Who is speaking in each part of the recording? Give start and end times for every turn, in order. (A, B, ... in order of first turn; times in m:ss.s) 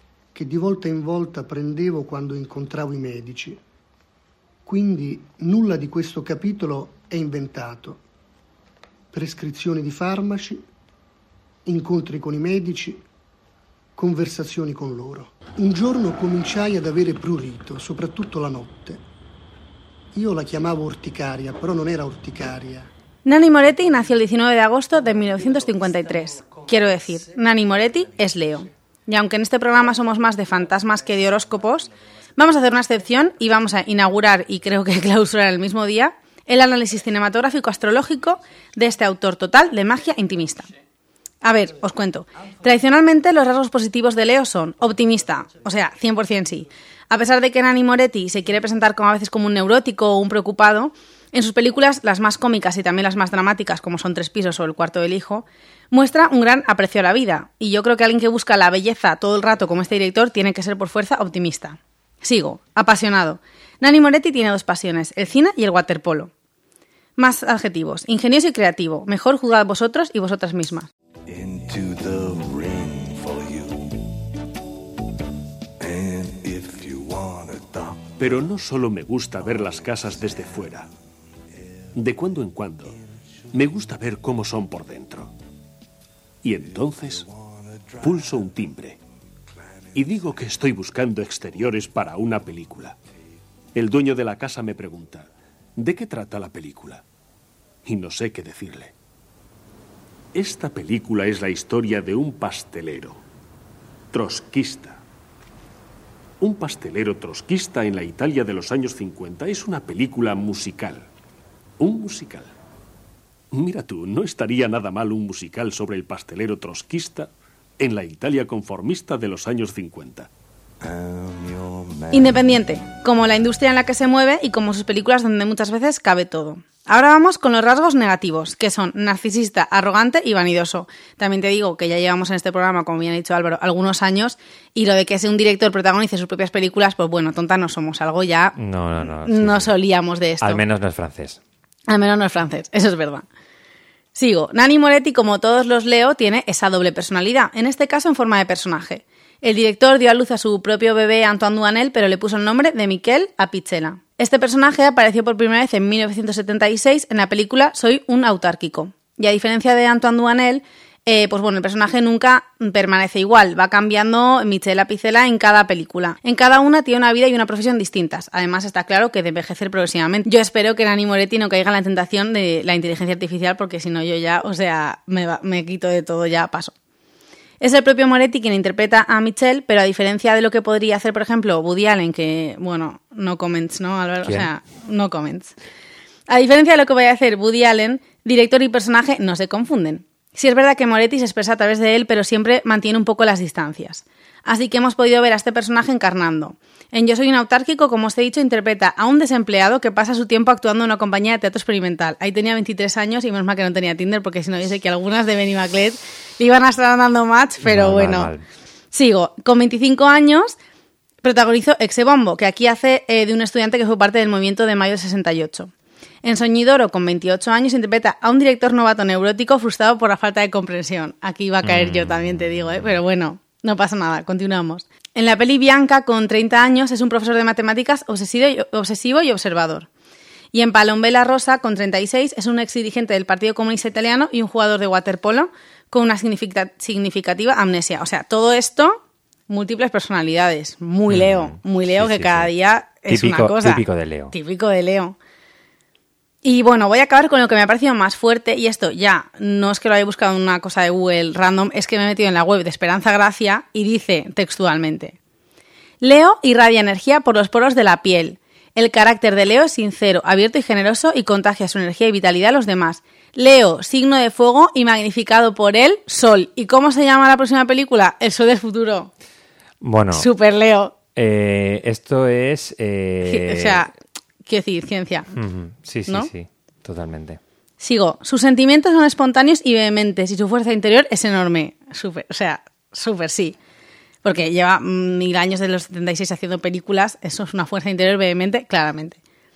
0:00.3-0:03.6 A
0:04.6-0:08.0 A
0:09.1-0:10.6 A
0:11.7-0:13.0 A
0:14.0-0:19.0 A
0:20.1-0:22.9 A
0:23.2-0:40.7 B
0:41.4-1:06.3 B
1:07.2-1:10.9 B
1:11.3-1:13.7 C
1:15.8-1:17.9 C
1:18.2-1:20.9 D
1:21.9-1:23.0 D
1:23.5-1:25.3 D
1:26.4-1:27.3 D
1:28.0-1:29.0 D
1:29.9-1:33.0 D
1:33.8-1:37.0 D
1:37.8-1:38.9 D
1:40.3-1:43.2 D
1:44.1-1:45.0 D
1:46.4-1:51.1 D
1:51.8-1:52.5 D
1:53.5-2:00.3 D
2:01.0-2:02.2 C
2:02.1-2:20.6 B
2:18.6-2:19.7 E
2:20.4-2:21.4 E
2:21.9-2:23.2 B
2:24.2-2:56.7 B
2:57.6-3:05.5 B
3:06.3-3:28.3 B
3:27.6-3:28.4 E
3:28.9-3:30.6 B
3:31.2-3:35.7 B
3:36.2-3:49.9 B
3:41.6-3:42.9 E
3:50.5-4:05.2 B
4:01.1-4:02.5 E
4:03.1-4:04.3 E
4:06.4-4:15.2 B
4:16.0-4:29.1 B
4:29.8-4:30.3 E
4:30.1-4:31.0 B
4:31.2-4:33.8 E
4:33.2-4:33.9 B
4:34.5-4:35.3 B
4:35.3-4:37.4 E
4:37.8-4:43.6 B
4:44.2-4:49.2 B